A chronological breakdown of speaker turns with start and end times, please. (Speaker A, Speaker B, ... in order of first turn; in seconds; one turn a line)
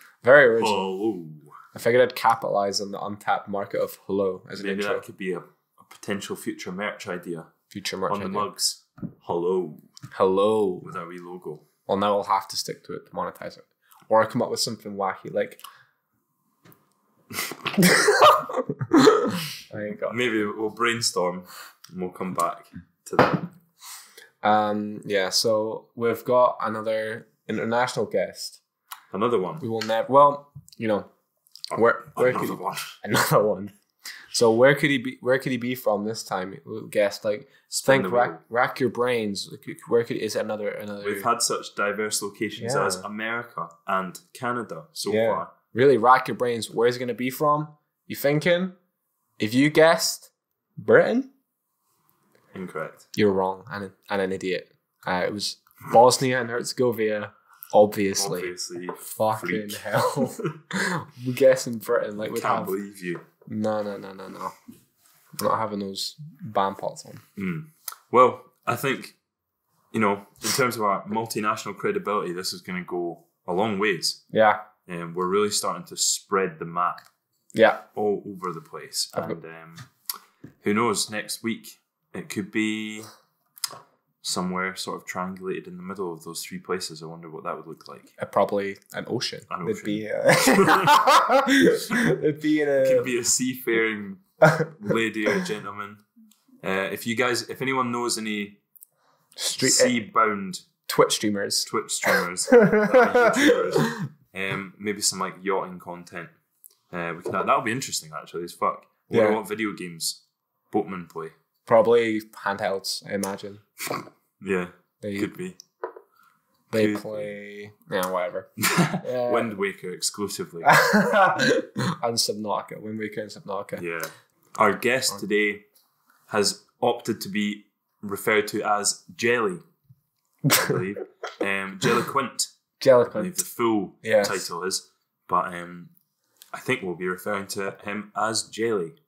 Speaker A: 0.2-0.9
Speaker B: 0.6-1.5
Speaker A: 1.7-5.0
Speaker B: 4.6-7.5
Speaker A: 7.7-8.5
Speaker B: 8.1-9.9
Speaker A: 10.1-10.9
Speaker B: 10.8-11.7
Speaker A: 11.9-15.6
Speaker A: 17.8-20.2
Speaker B: 20.1-23.5
Speaker A: 24.4-28.6
Speaker B: 29.1-29.6
Speaker A: 29.6-31.1
Speaker B: 31.7-33.0
Speaker A: 31.7-33.7
Speaker A: 34.3-41.3
Speaker B: 37.7-38.4
Speaker B: 41.0-45.5
Speaker A: 42.6-43.0
Speaker A: 45.1-48.8
Speaker A: 49.4-51.3
Speaker B: 52.5-53.0
Speaker A: 53.1-58.5
Speaker B: 58.2-60.5
Speaker A: 59.0-62.7
Speaker B: 62.2-63.2
Speaker A: 63.5-64.5
Speaker A: 65.4-67.2
Speaker B: 67.4-69.1
Speaker B: 69.9-74.2
Speaker A: 74.3-74.6
Speaker B: 74.9-77.0
Speaker A: 77.5-77.8
Speaker B: 77.9-79.8
Speaker B: 80.6-83.1
Speaker B: 84.2-88.1
Speaker A: 88.2-93.1
Speaker B: 89.5-91.0
Speaker B: 92.8-96.0
Speaker A: 94.4-94.7
Speaker B: 96.6-98.6
Speaker A: 99.4-99.9
Speaker B: 99.6-100.6
Speaker A: 100.9-104.0
Speaker B: 101.7-106.3
Speaker B: 106.9-111.3
Speaker A: 109.1-109.4
Speaker A: 111.7-113.6
Speaker B: 114.4-115.6
Speaker A: 115.0-115.3
Speaker B: 116.7-117.3
Speaker A: 116.7-118.5
Speaker B: 118.6-120.8
Speaker A: 119.0-119.5
Speaker A: 120.6-123.8
Speaker B: 123.8-125.6
Speaker B: 126.3-129.6
Speaker A: 130.5-130.7
Speaker B: 130.5-132.5
Speaker A: 132.8-133.4
Speaker B: 133.1-135.9
Speaker A: 134.0-134.4
Speaker B: 136.5-138.9